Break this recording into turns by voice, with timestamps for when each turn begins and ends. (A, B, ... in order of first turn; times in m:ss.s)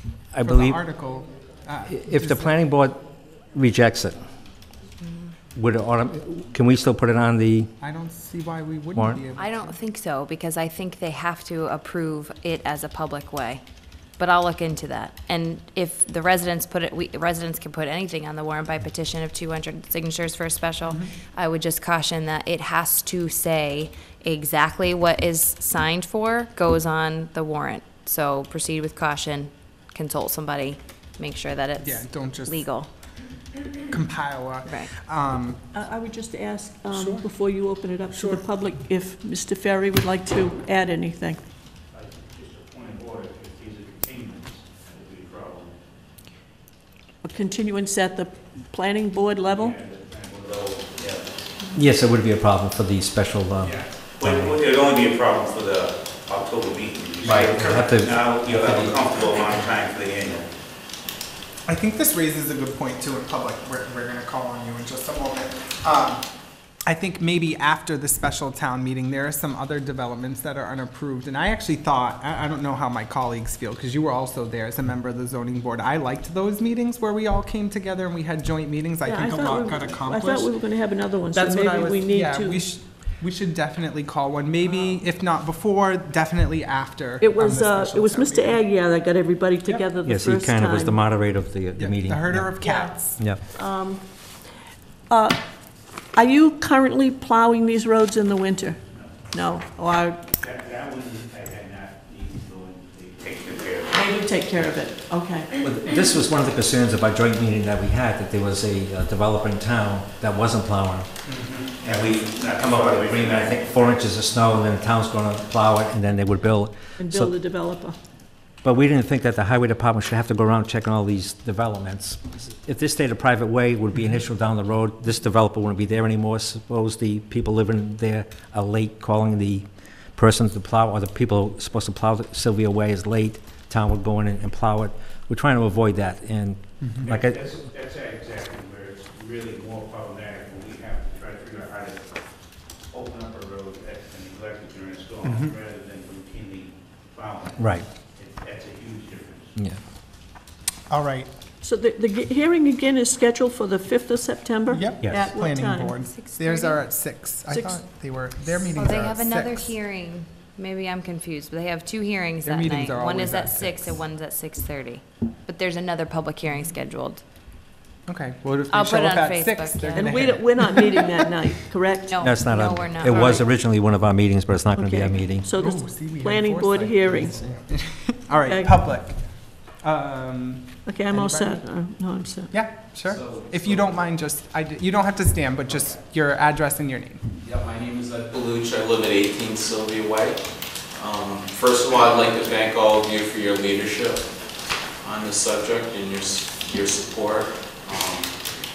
0:00.3-0:00.8 A
0:00.4-0:02.5 B
0:01.9-0:04.2 A
0:05.6-0:07.7 A
0:07.8-0:09.7 B
0:09.0-0:09.2 A
0:09.4-0:13.6 C
0:14.2-0:32.9 C
0:31.8-0:32.7 B
0:33.9-0:35.6 B
0:35.7-0:41.4 D
0:36.9-0:37.2 B
0:38.1-0:38.4 B
0:41.9-0:45.7 E
0:47.2-0:49.8 D
0:49.5-0:51.4 E
0:51.7-0:54.6 A
0:53.6-1:00.5 E
0:57.2-0:58.9 A
1:01.6-1:06.2 B
1:06.8-1:20.5 B
1:19.0-1:22.6 D
1:21.3-1:28.6 B
1:27.2-1:31.0 D
1:30.0-1:32.5 A
1:31.8-1:33.2 B
1:33.5-1:34.0 D
1:35.1-1:35.4 D
1:36.1-1:38.8 D
1:39.3-1:40.2 D
1:40.4-1:44.0 E
1:43.9-1:45.5 D
1:45.6-1:51.1 A
1:51.3-1:54.0 E
1:51.8-1:57.3 A
1:57.0-1:58.0 D
1:58.6-2:17.4 A
2:17.0-2:22.1 E
2:22.9-2:29.6 E
2:25.2-2:25.5 B
2:27.6-2:27.8 A
2:30.9-2:31.3 B
2:31.6-2:36.0 D
2:34.7-2:39.7 B
2:36.0-2:36.8 C
2:37.5-2:37.8 D
2:38.6-2:47.2 C
2:42.4-2:44.0 B
2:48.1-2:50.8 B
2:48.7-2:50.2 C
2:50.0-2:52.2 D
2:52.1-2:53.5 C
2:52.2-2:55.5 A
2:54.8-2:57.4 D
2:55.6-2:59.1 B
2:58.4-2:58.7 D
2:59.8-3:01.6 B
3:00.8-3:02.5 D
3:02.5-3:07.2 B
3:07.4-3:10.4 F
3:10.9-3:14.2 F
3:15.0-3:18.3 F